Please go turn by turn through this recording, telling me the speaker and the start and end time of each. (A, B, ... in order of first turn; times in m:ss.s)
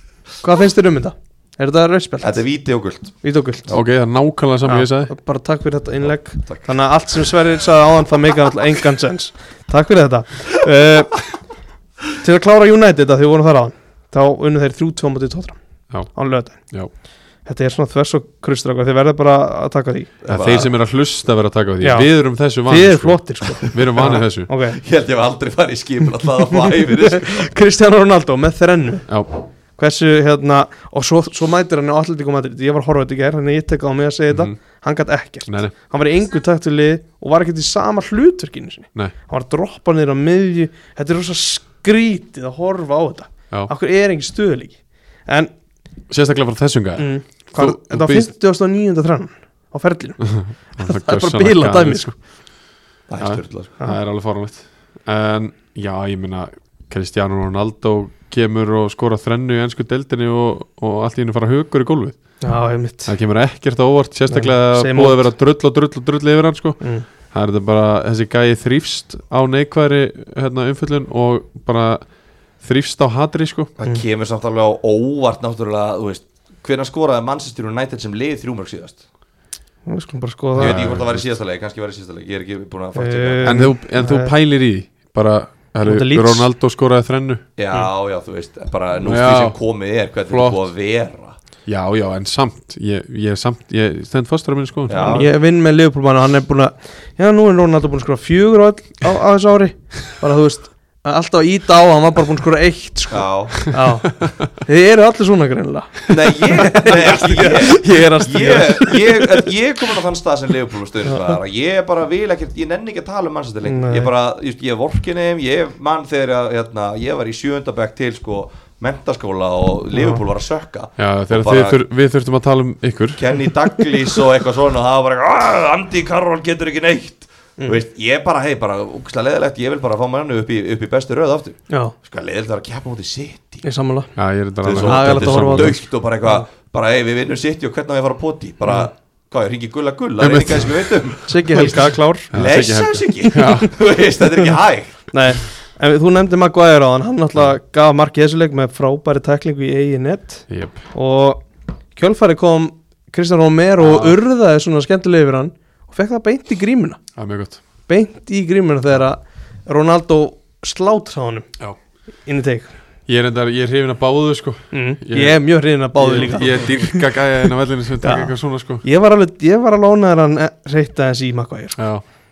0:00.3-0:02.4 A
0:02.2-0:03.8 B
0:03.2-0:03.7 A
0:03.7-0:05.1 C
0:04.6-0:11.3 A
0:06.0-0:06.8 B
0:12.2-0:16.7 A
0:15.9-0:16.9 C
0:17.4-0:20.7 A
0:20.2-0:20.7 B
0:20.3-0:24.5 C
0:21.8-0:24.8 A
0:23.7-0:24.2 B
0:24.7-0:27.5 B
0:26.5-0:29.1 A
0:29.1-0:29.3 C
0:29.8-0:45.5 A
0:34.3-0:34.6 C
0:35.5-0:35.7 C
0:46.1-0:48.3 C
0:47.0-0:52.1 A
0:50.2-0:52.1 C
0:53.1-0:53.8 B
0:53.2-1:02.2 C
1:02.4-1:03.1 A
1:03.0-1:12.1 C
1:04.3-1:05.2 A
1:06.8-1:07.0 A
1:12.6-1:13.7 C
1:13.8-1:19.0 B
1:19.8-1:20.8 A
1:20.6-1:23.7 B
1:20.6-1:21.3 C
1:23.0-1:24.3 A
1:23.4-1:27.4 C
1:25.8-1:26.5 A
1:27.6-1:31.4 B
1:29.0-1:29.6 C
1:30.3-1:30.6 C
1:31.6-1:35.2 C
1:34.9-1:35.3 B
1:35.0-1:49.4 A
1:43.1-1:43.7 B
1:46.1-2:01.8 B
1:51.1-1:51.3 A
1:53.6-1:54.1 A
1:59.9-2:00.2 A
2:01.0-2:03.3 C
2:03.2-2:13.6 B
2:13.6-2:14.1 A
2:14.2-2:15.8 C
2:14.6-2:25.1 B
2:14.8-2:16.4 A
2:20.2-2:21.7 C
2:21.3-2:22.3 A
2:22.3-2:23.7 C
2:23.2-2:23.7 A
2:25.1-2:31.4 A
2:30.5-2:30.8 C
2:32.0-2:37.0 A
2:33.8-2:34.2 C
2:37.2-2:37.6 C
2:37.9-2:41.5 A
2:42.2-2:42.7 A
2:43.1-2:48.8 C
2:44.7-2:47.2 A
2:48.0-2:51.8 A
2:51.8-2:52.0 C